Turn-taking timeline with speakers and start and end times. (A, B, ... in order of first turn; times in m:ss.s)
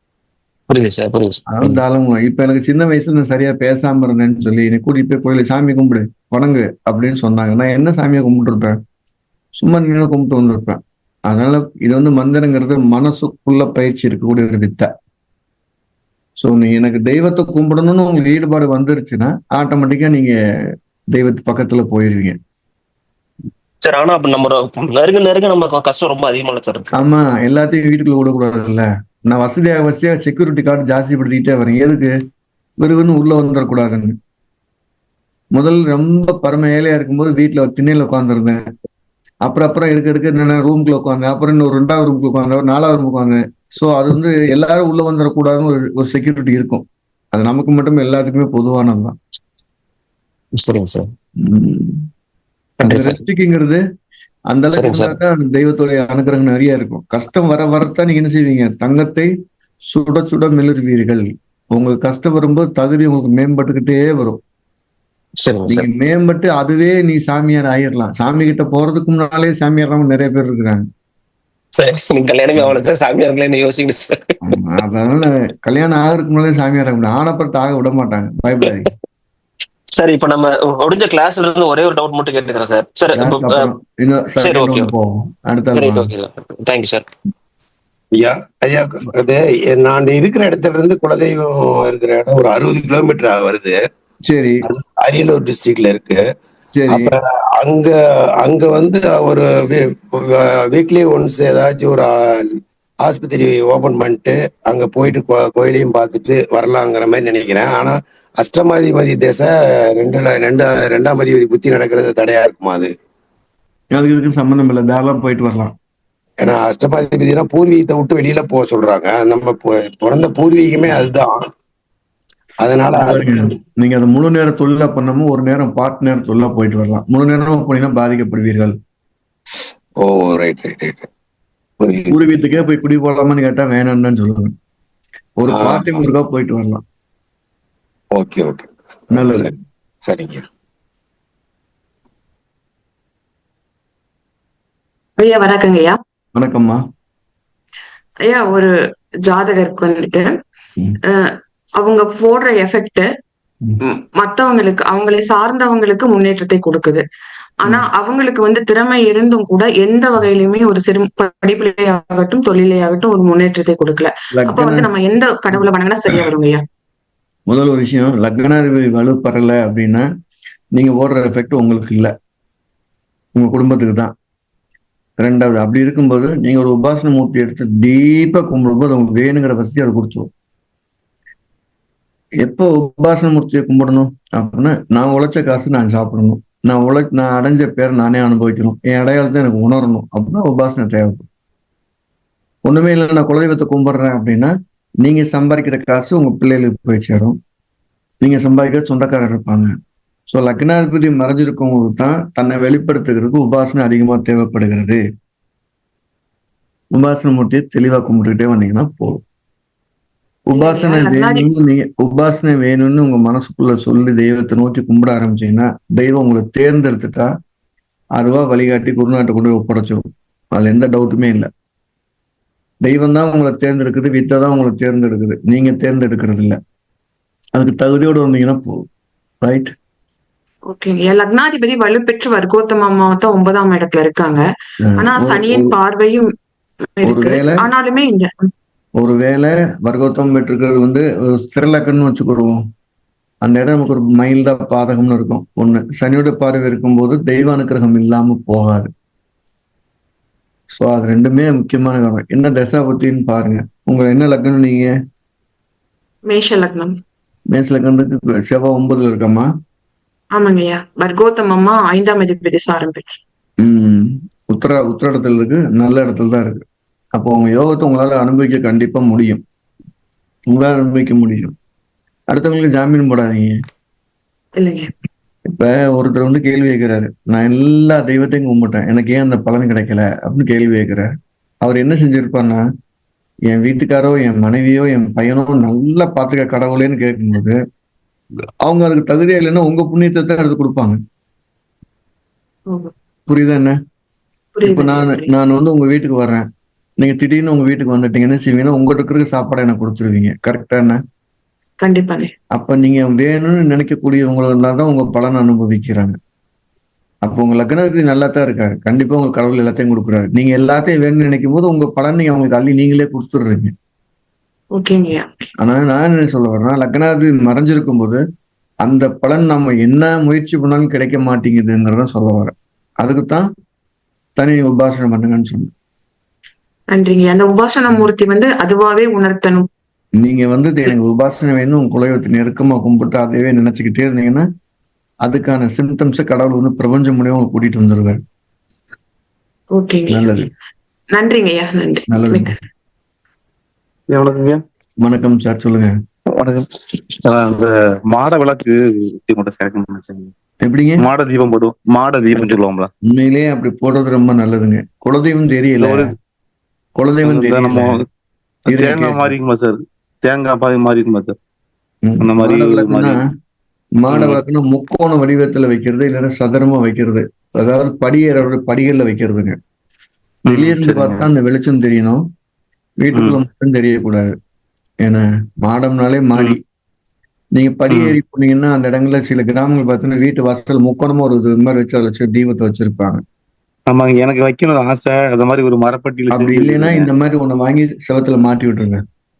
0:00.7-0:01.8 A
0:01.5-0:08.8 B
0:09.6-0:14.9 B
0:16.4-0:20.4 B
0:21.1-0:22.4 B
0:23.8-0:26.9 A
0:27.0-0:32.1 B
0:32.8-0:34.2 B
0:35.5-0:38.6 B
0:39.4-0:49.2 B
0:50.6-0:51.1 A
0:51.4-0:52.0 B
0:52.8-0:53.8 B
0:52.8-0:53.2 A
0:54.5-0:59.3 B
0:54.7-0:55.2 A
0:59.9-1:04.4 B
1:05.4-1:05.9 A
1:05.7-1:10.9 B
1:11.8-1:14.2 A
1:14.4-1:18.9 B
1:20.0-1:23.6 A
1:23.2-1:26.1 B
1:24.4-1:24.9 A
1:25.8-1:27.1 A
1:28.1-1:33.8 C
1:34.2-1:34.7 B
1:34.6-1:36.2 C
1:36.7-1:37.1 B
1:36.9-1:52.9 C
1:53.9-1:55.7 B
1:56.4-2:01.4 C
2:02.6-2:03.6 C
2:02.9-2:08.8 B
2:10.0-2:11.1 C
2:11.8-2:12.4 C
2:12.1-2:14.5 B
2:15.4-2:16.8 B
2:15.5-2:16.1 C
2:18.2-2:19.6 C
2:19.1-2:19.5 B
2:20.1-2:20.4 C
2:25.2-2:26.0 D
2:26.4-2:26.8 B
2:28.2-2:28.7 D
2:29.3-2:30.3 D
2:31.1-2:33.1 D
2:33.8-2:37.0 D
2:37.6-2:46.6 D
2:44.3-2:44.9 B
2:45.5-2:46.3 B
2:47.5-2:50.0 B
2:50.7-2:52.1 B
2:53.4-2:54.1 B
2:55.2-3:00.3 B
3:02.4-3:11.3 B
3:12.6-3:17.4 B
3:18.2-3:19.7 B
3:20.3-3:25.0 B
3:26.9-3:29.2 B
3:30.5-3:37.3 B
3:30.5-3:31.5 D
3:38.2-3:41.5 B
3:42.8-3:46.6 B
3:47.6-3:48.9 B
3:49.4-3:49.7 B
3:50.7-3:54.4 D
3:54.9-3:55.8 B
3:55.0-3:56.3 D
3:57.0-3:58.5 D
3:57.0-3:57.7 B
3:59.0-4:02.6 B
4:03.4-4:08.9 B
4:10.7-4:14.9 B
4:16.3-4:17.0 D
4:17.5-4:19.5 B
4:20.3-4:23.2 D
4:23.6-4:26.6 B
4:27.2-4:29.4 B
4:30.5-4:31.5 B
4:32.3-4:33.6 B
4:34.6-4:34.9 D
4:35.5-4:41.1 B
4:41.6-4:42.6 B
4:43.5-4:47.6 B
4:48.6-4:51.0 B
4:52.7-4:52.9 D
4:53.3-4:53.8 B
4:54.6-4:55.3 D
4:54.6-4:56.5 B
4:57.0-5:01.0 B
5:01.8-5:02.3 D
5:02.5-5:06.2 B
5:07.2-5:13.7 B
5:14.7-5:15.3 D
5:15.6-5:18.2 B
5:18.8-5:23.5 B
5:24.4-5:25.7 B
5:26.9-5:29.7 D
5:30.2-5:34.4 B
5:35.2-5:38.2 B
5:39.7-5:40.3 D
5:40.1-5:40.5 B
5:41.1-5:42.5 D
5:42.1-5:42.5 B
5:44.1-5:44.6 E
5:45.0-5:45.9 B
5:46.3-5:50.3 E
5:50.6-5:51.0 B
5:51.0-5:52.9 E
5:53.1-5:56.1 B
5:55.8-5:56.1 E
5:57.0-5:58.0 B
5:57.2-5:58.1 E
5:58.6-6:01.4 E
5:58.7-5:59.3 B
6:02.0-6:03.2 B
6:02.2-6:03.2 E
6:04.0-6:09.6 B
6:04.1-6:04.4 E
6:10.5-6:11.3 E
6:10.5-6:12.2 B
6:13.0-6:14.3 B
6:15.0-6:16.6 B
6:17.6-6:23.2 B
6:17.9-6:18.2 E
6:23.9-6:27.1 E
6:26.3-6:29.0 B